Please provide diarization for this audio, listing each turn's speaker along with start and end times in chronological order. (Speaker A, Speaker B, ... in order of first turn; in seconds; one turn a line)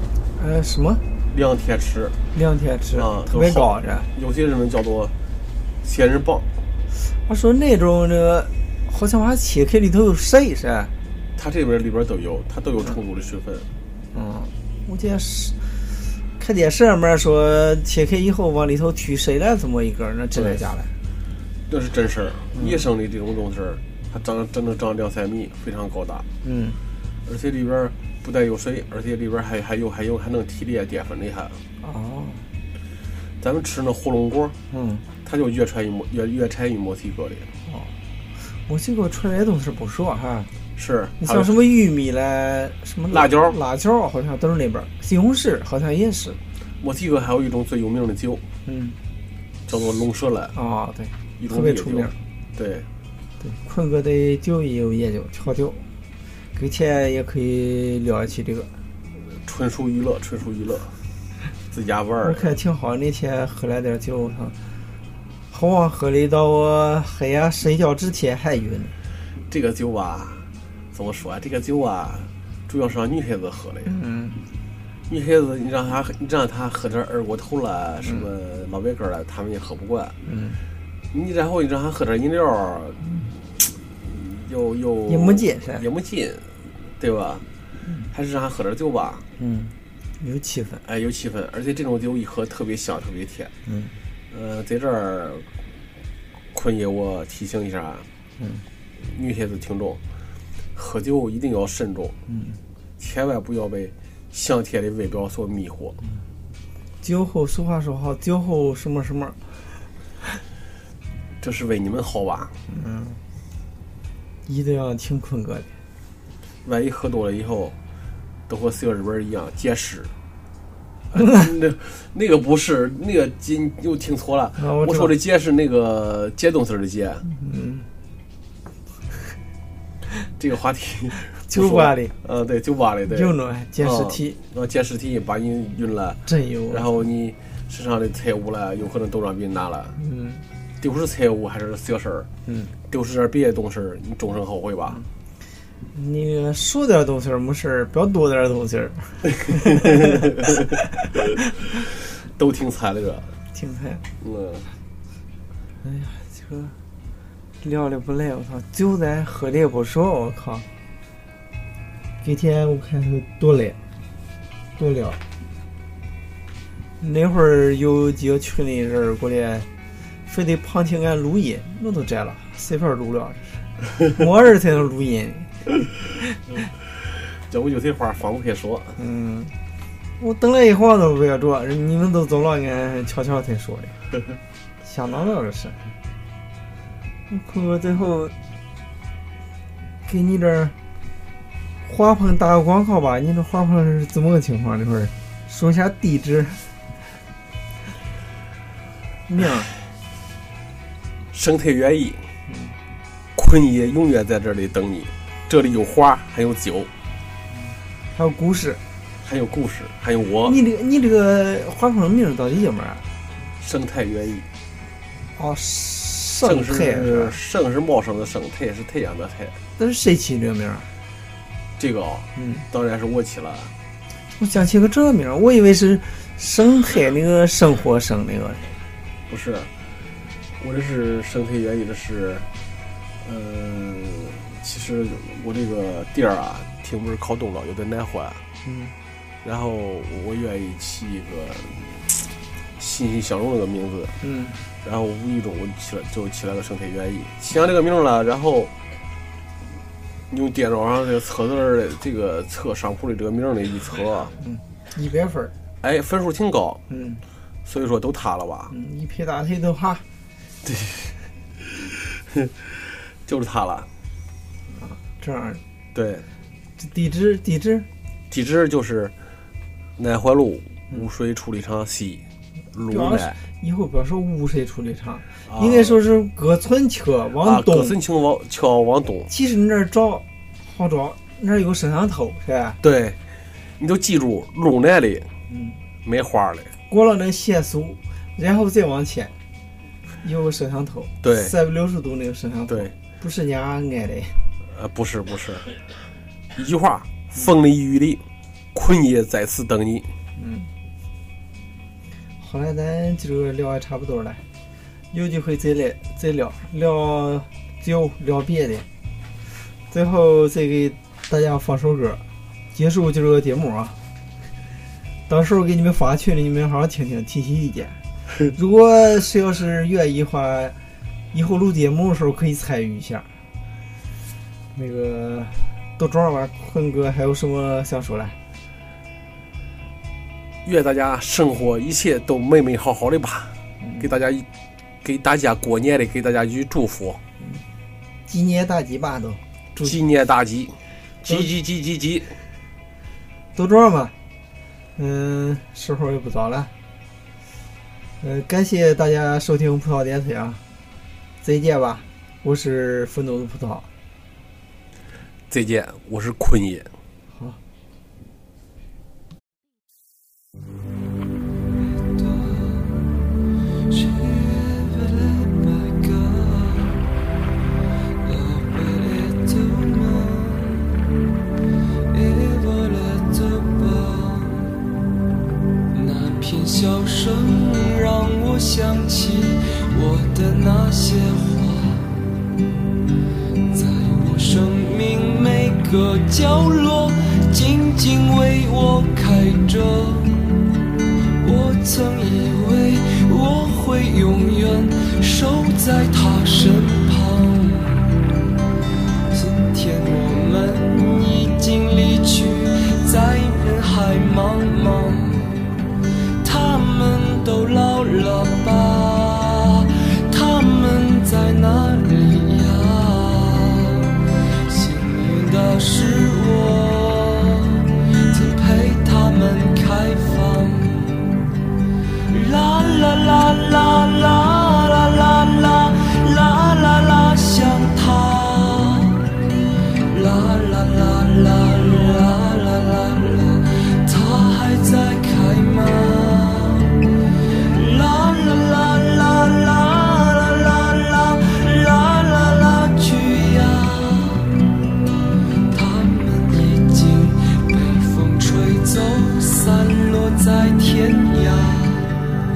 Speaker A: 0.3-1.0
Speaker B: 1.3-2.2
Speaker A: 2.3-4.1
Speaker B: 2.9-5.1
Speaker B: 5.8-6.5
Speaker A: 7.0-10.9
Speaker B: 11.3-13.7
Speaker A: 14.1-15.8
Speaker A: 16.4-20.9
Speaker B: 20.3-20.6
Speaker B: 21.7-26.2
Speaker A: 22.5-22.8
Speaker A: 26.4-26.8
Speaker B: 27.2-31.6
Speaker A: 31.8-32.5
Speaker B: 33.4-34.5
Speaker A: 34.7-35.0
Speaker B: 35.2-37.5
Speaker A: 37.6-37.9
Speaker A: 38.5-40.5
Speaker B: 40.8-41.5
Speaker A: 41.2-46.4
Speaker B: 43.1-43.5
Speaker B: 46.8-48.4
Speaker A: 48.6-49.0
Speaker B: 49.7-50.5
Speaker A: 50.5-52.1
Speaker B: 51.4-52.9
Speaker A: 53.4-55.9
Speaker A: 56.5-58.7
Speaker B: 59.1-61.0
Speaker B: 61.7-62.5
Speaker A: 62.2-64.5
Speaker A: 65.5-68.9
Speaker B: 69.5-73.9
Speaker A: 73.8-74.4
Speaker B: 75.1-80.2
Speaker A: 78.0-78.3
Speaker A: 80.2-80.6
Speaker B: 81.1-83.0
Speaker B: 83.6-87.4
Speaker A: 85.1-85.9
Speaker A: 87.8-88.1
Speaker B: 88.1-89.2
Speaker A: 89.4-90.8
Speaker B: 90.8-93.5
Speaker A: 93.7-93.9
Speaker B: 94.3-95.5
Speaker B: 96.5-98.1
Speaker A: 98.4-98.6
Speaker B: 99.0-100.0
Speaker B: 100.7-102.2
Speaker A: 102.3-102.6
Speaker B: 103.0-106.0
Speaker A: 107.0-109.8
Speaker B: 111.4-112.5
Speaker A: 112.7-113.2
Speaker A: 114.5-115.7
Speaker B: 116.6-117.8
Speaker B: 118.5-120.1
Speaker B: 121.1-127.2
Speaker A: 124.6-125.1
Speaker A: 127.2-127.9
Speaker B: 130.4-140.0
Speaker A: 131.4-132.1
Speaker A: 133.1-134.4
Speaker A: 136.3-136.9
Speaker A: 140.0-140.4
Speaker B: 140.8-142.3
Speaker A: 142.4-142.7
Speaker B: 142.9-145.0
Speaker A: 145.9-150.3
Speaker B: 149.8-150.1
Speaker B: 152.1-153.3
Speaker A: 153.5-154.0
Speaker B: 154.2-154.7
Speaker A: 155.8-156.8
Speaker A: 157.6-160.7
Speaker A: 162.2-163.8
Speaker A: 164.8-165.2
Speaker A: 167.0-169.7
Speaker A: 170.3-176.4
Speaker B: 177.4-179.0
Speaker A: 179.0-179.5
Speaker A: 180.2-184.0
Speaker A: 184.8-185.9
Speaker A: 187.3-188.3
Speaker A: 190.1-190.7
Speaker A: 191.8-196.7
Speaker A: 199.3-199.7
Speaker B: 201.3-202.3
Speaker A: 202.5-202.8
Speaker B: 203.3-206.9
Speaker A: 207.5-208.8
Speaker B: 209.2-210.6
Speaker A: 210.4-213.1
Speaker B: 213.6-214.5
Speaker A: 215.3-217.4
Speaker B: 216.4-219.6
Speaker A: 219.8-220.9
Speaker B: 221.8-223.7
Speaker A: 222.3-222.6
Speaker A: 224.4-228.7
Speaker B: 229.3-229.7
Speaker B: 230.6-232.5
Speaker B: 233.2-238.4
Speaker A: 238.6-238.9
Speaker B: 239.4-244.1
Speaker A: 244.2-244.6
Speaker B: 244.8-248.7
Speaker B: 250.3-254.3
Speaker A: 254.4-255.5
Speaker B: 255.8-256.8
Speaker A: 256.9-257.2
Speaker B: 257.6-258.7
Speaker A: 258.7-260.0
Speaker B: 260.6-263.9
Speaker A: 264.7-265.6
Speaker B: 265.9-266.3
Speaker A: 266.8-267.9
Speaker B: 268.3-269.1
Speaker B: 270.0-273.4
Speaker A: 272.9-278.0
Speaker B: 275.4-276.0
Speaker B: 277.4-279.3
Speaker A: 279.3-282.8
Speaker B: 282.8-283.2
Speaker B: 283.8-285.3
Speaker A: 285.5-285.8
Speaker B: 286.0-286.7
Speaker A: 286.9-289.3
Speaker A: 290.2-294.4
Speaker B: 291.2-291.5
Speaker B: 292.7-292.9
Speaker B: 294.7-295.7
Speaker B: 296.5-298.2
Speaker B: 298.7-300.1
Speaker A: 300.4-300.7
Speaker A: 302.4-304.4
Speaker A: 305.1-308.9
Speaker A: 309.9-314.0
Speaker A: 315.3-320.8
Speaker A: 321.3-323.3
Speaker A: 324.7-328.4
Speaker B: 330.6-334.5
Speaker A: 333.8-334.1
Speaker B: 335.0-337.2
Speaker A: 337.4-337.6
Speaker A: 338.3-340.0
Speaker B: 339.8-342.4
Speaker A: 343.5-344.1
Speaker A: 344.9-346.7
Speaker A: 348.2-350.6
Speaker A: 351.4-353.9
Speaker B: 355.5-356.9
Speaker A: 357.3-357.6
Speaker C: 361.8-363.1
Speaker C: 363.9-367.1
Speaker C: 368.2-370.9
Speaker C: 372.1-374.8
Speaker C: 375.9-382.1
Speaker C: 383.7-390.5
Speaker C: 391.4-398.2
Speaker C: 399.3-405.5
Speaker C: 406.4-421.4
Speaker C: 422.3-429.3
Speaker C: 430.1-444.6
Speaker C: 445.7-452.2